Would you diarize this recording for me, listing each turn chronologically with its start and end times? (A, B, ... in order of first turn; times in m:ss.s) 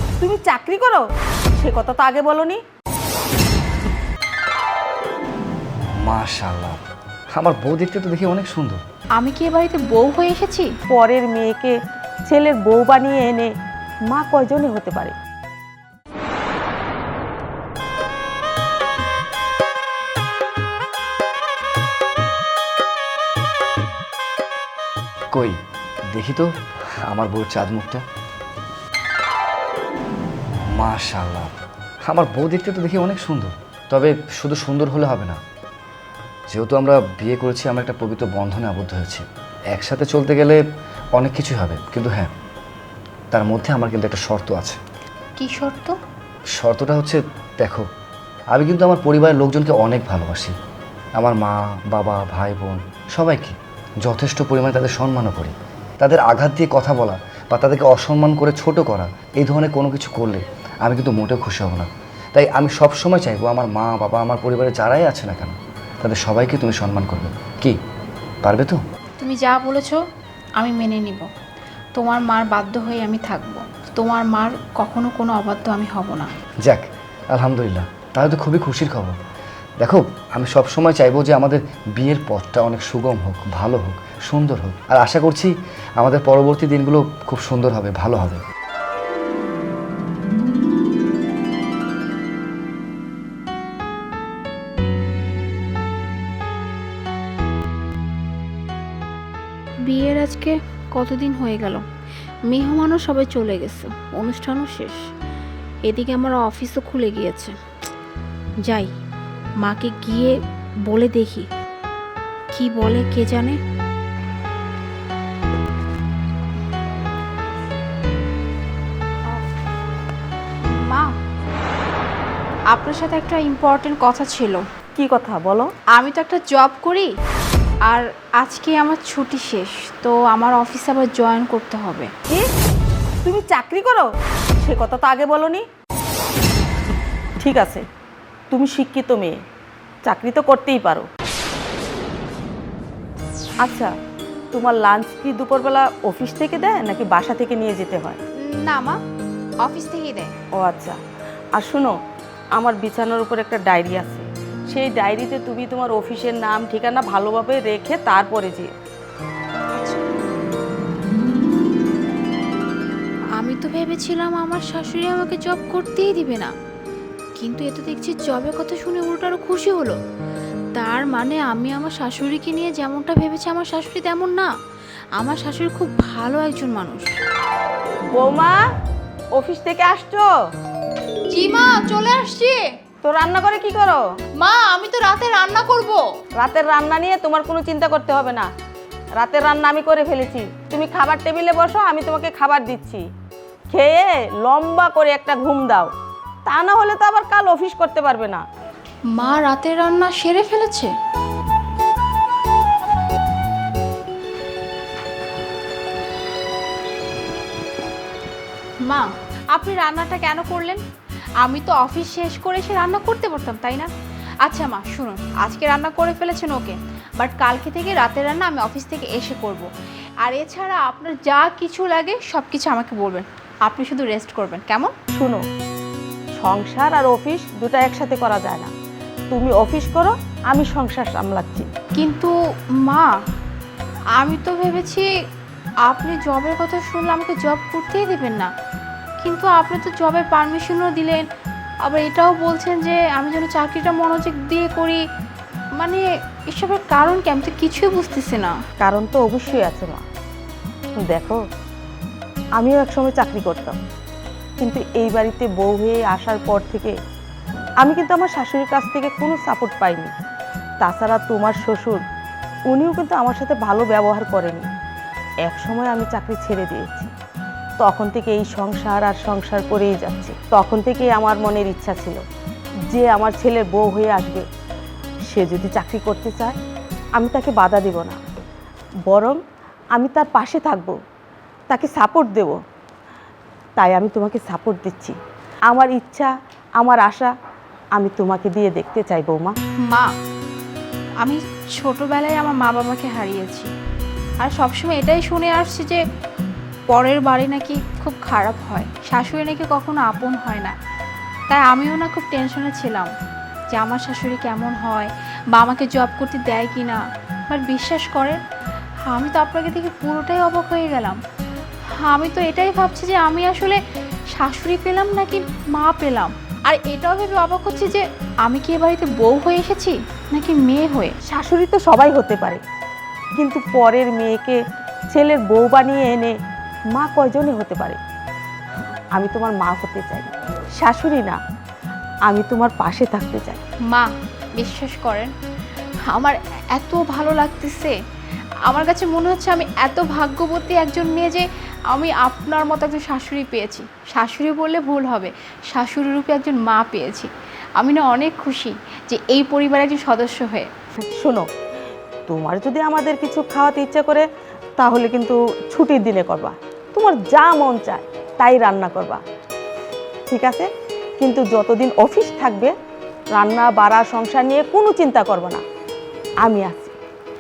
0:00.2-0:01.0 A
0:01.6-0:02.6 A
0:06.0-0:06.8 B
0:07.4-0:08.8 B
0:09.2-0:10.7 C
0:10.9-0:11.8 A
0:12.3-0:13.5 A
0:14.1-0:15.2 A
0:25.3-0:25.6 B
0:26.1-0:26.5 B
0:27.1-0:28.0 B
0:30.8-0:31.5 B
0:32.1-0:35.4 B
0:36.5-0:40.6 B
0:41.2-0:42.3 B
0:43.3-0:44.8 B
0:45.4-0:46.0 C
0:46.6-0:47.9 B
0:48.5-0:50.6 B
0:51.2-1:07.8 B
1:08.4-1:08.8 B
1:09.2-1:10.0 C
1:10.6-1:11.3 C
1:12.0-1:16.3 C
1:16.6-1:19.2 B
1:19.8-1:28.4 B
1:39.9-1:41.8 C
1:42.5-1:45.0 C
1:45.9-1:47.6 C
1:48.7-1:48.9 C
1:49.6-1:50.4 C
1:50.9-1:51.5 C
1:52.5-1:53.6 C
2:00.6-2:01.2 C
2:02.7-2:04.6 C
2:05.0-2:05.7 A
2:05.9-2:07.1 C
2:07.9-2:12.1 C
2:13.2-2:14.1 A
2:14.6-2:15.6 A
2:17.4-2:17.8 A
2:18.5-2:19.4 A
2:20.1-2:21.1 A
2:23.6-2:23.9 A
2:24.5-2:28.2 A
2:28.5-2:29.0 C
2:29.6-2:30.3 C
2:30.6-2:31.0 A
2:31.6-2:32.0 A
2:32.6-2:38.7 A
2:39.7-2:40.1 C
2:43.4-2:46.5 C
2:47.4-2:50.0 C
2:50.8-2:54.5 C
2:55.2-2:57.1 C
2:58.1-2:58.6 A
2:59.4-3:00.3 A
3:01.3-3:02.6 C
3:03.0-3:04.0 A
3:04.4-3:06.0 C
3:06.4-3:08.5 A
3:09.2-3:13.0 A
3:13.7-3:15.9 A
3:16.5-3:18.4 A
3:19.2-3:20.9 C
3:28.8-3:30.8 C
3:31.4-3:33.9 C
3:34.4-3:39.7 C
3:40.2-3:44.9 C
3:45.1-3:45.4 A
3:46.4-3:48.7 A
3:49.3-3:51.7 A
3:52.0-3:53.1 C
3:54.2-3:55.1 C
3:55.9-3:58.5 C
3:59.2-4:01.3 C
4:01.8-4:05.0 C
4:05.8-4:08.6 C
4:08.8-4:10.0 A
4:11.1-4:11.4 A
4:12.6-4:13.8 A
4:14.6-4:17.0 A
4:17.8-4:20.1 A
4:20.8-4:22.0 A
4:22.7-4:24.7 A
4:25.5-4:27.1 A
4:27.8-4:32.2 A
4:32.9-4:34.4 A
4:35.3-4:36.6 A
4:37.2-4:38.2 A
4:39.1-4:39.4 A
4:40.0-4:41.0 A
4:41.7-4:42.6 A
4:43.8-4:45.2 A
4:45.7-4:47.3 A
4:48.0-4:49.6 A
4:49.9-4:50.1 C
4:51.2-4:53.7 C
4:54.4-4:56.0 C
4:56.9-5:00.8 C
5:01.5-5:03.1 C
5:03.7-5:08.4 C
5:09.1-5:11.2 C
5:12.0-5:13.8 C
5:14.3-5:21.2 C
5:21.2-5:22.6 A
5:23.4-5:24.6 A
5:25.1-5:26.4 A
5:27.0-5:28.0 A
5:29.2-5:31.4 A
5:32.3-5:33.6 A
5:33.9-5:35.3 C
5:36.1-5:38.0 C
5:38.7-5:50.7 C
5:51.2-5:51.5 A
5:52.3-5:54.2 A
5:54.8-5:59.2 A
6:00.3-6:00.7 A
6:01.2-6:02.7 A
6:03.4-6:05.6 A
6:06.4-6:07.0 A